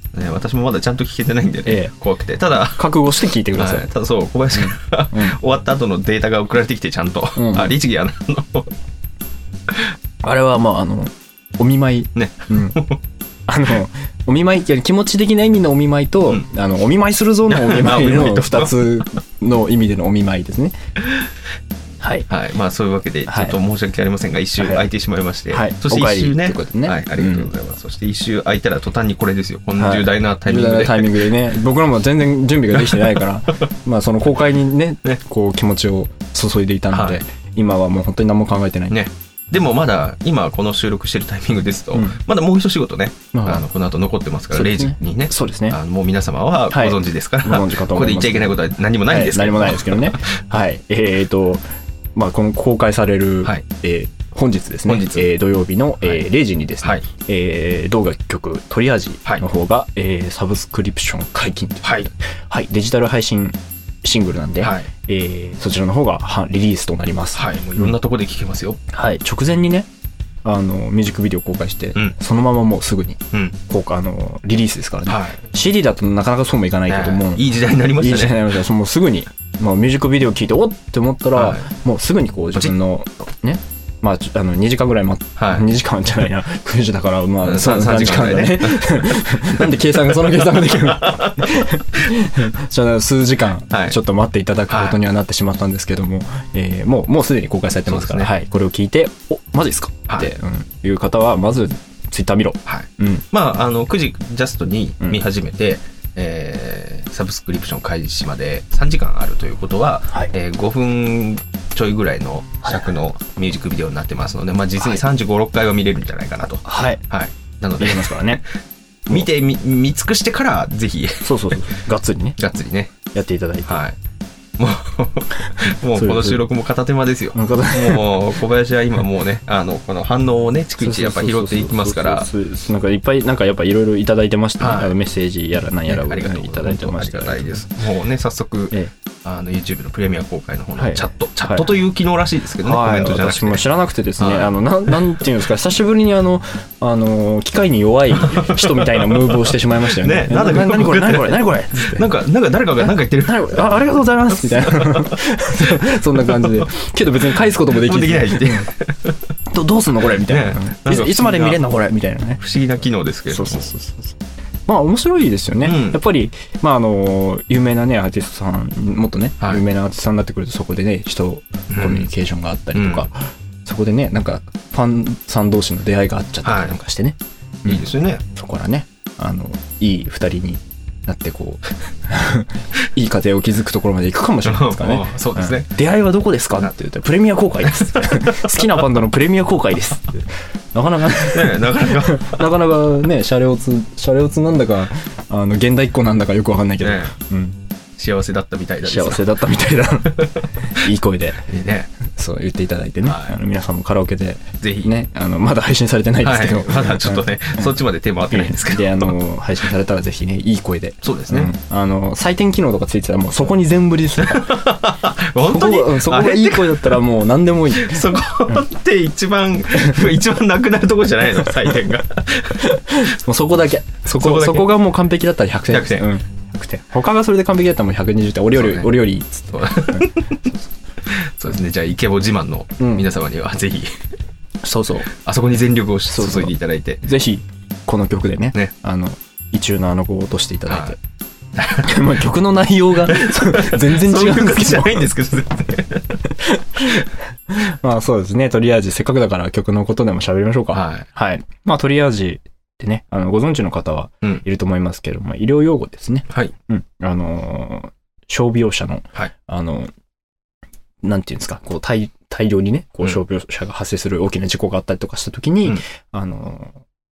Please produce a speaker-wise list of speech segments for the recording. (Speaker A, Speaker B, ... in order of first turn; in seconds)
Speaker A: 0.1-3.0, 3.5-8.7, 12.1-13.0, 17.5-18.8, 22.3-31.3, 32.8-33.2, 36.9-37.2, 38.9-50.2, 54.9-55.3, 61.8-62.1, 64.6-64.9, 67.3-68.8, 75.1-75.4, 76.9-78.5, 81.3-81.7, 85.4-85.7, 87.4-91.7, 93.7-94.0, 94.7-95.0, 97.8-98.3, 102.7-118.4, 119.1-121.6, 122.4-123.0, 123.7-124.0, 124.6-132.3, 134.6-134.9, 135.8-143.6, 144.2-145.2, 148.2-153.8, 154.4-155.2, 156.1-156.7, 157.7-159.2, 160.0-161.6, 162.4-163.7, 165.6-166.0, 171.7-172.1, 172.7-173.1, 176.4-176.8, 177.7-178.2, 184.4-185.7, 187.8-188.7, 191.2-192.4, 196.8-197.1, 197.9-199.3, 201.5-201.9, 203.0-203.3, 204.6-204.9, 206.2-209.1, 211.0-211.5, 214.2-217.0, 217.7-222.7, 224.1-224.7, 225.7-226.1, 228.5-228.9, 229.5-230.5, 231.0-234.0, 235.1-237.0, 240.7-240.9, 241.5-242.2, 243.0-246.2, 250.7-251.1
Speaker B: 1.6-1.9, 2.8-3.9, 4.5-5.4, 7.3-7.7, 10.2-12.8, 13.5-20.8, 22.0-22.3, 23.3-23.6, 24.6-24.9, 25.5-27.5, 29.8-39.0, 41.9-42.2, 43.3-43.6, 44.5-45.8, 46.7-51.6, 52.1-67.9, 68.9-69.9, 70.4-103.2, 116.6-117.0, 117.8-118.4, 121.2-122.4, 123.1-123.8, 125.4-126.4, 127.3-128.2, 130.8-137.7, 140.8-141.7, 142.6-152.1, 152.8-158.7, 159.5-162.4, 163.3-197.6, 198.8-201.5, 202.1-207.7, 208.3-214.7, 215.4-218.2, 222.6-230.1, 232.8-233.1, 234.6-235.1, 236.1-241.0, 241.8-245.1, 246.4-259.9, 261.0-266.8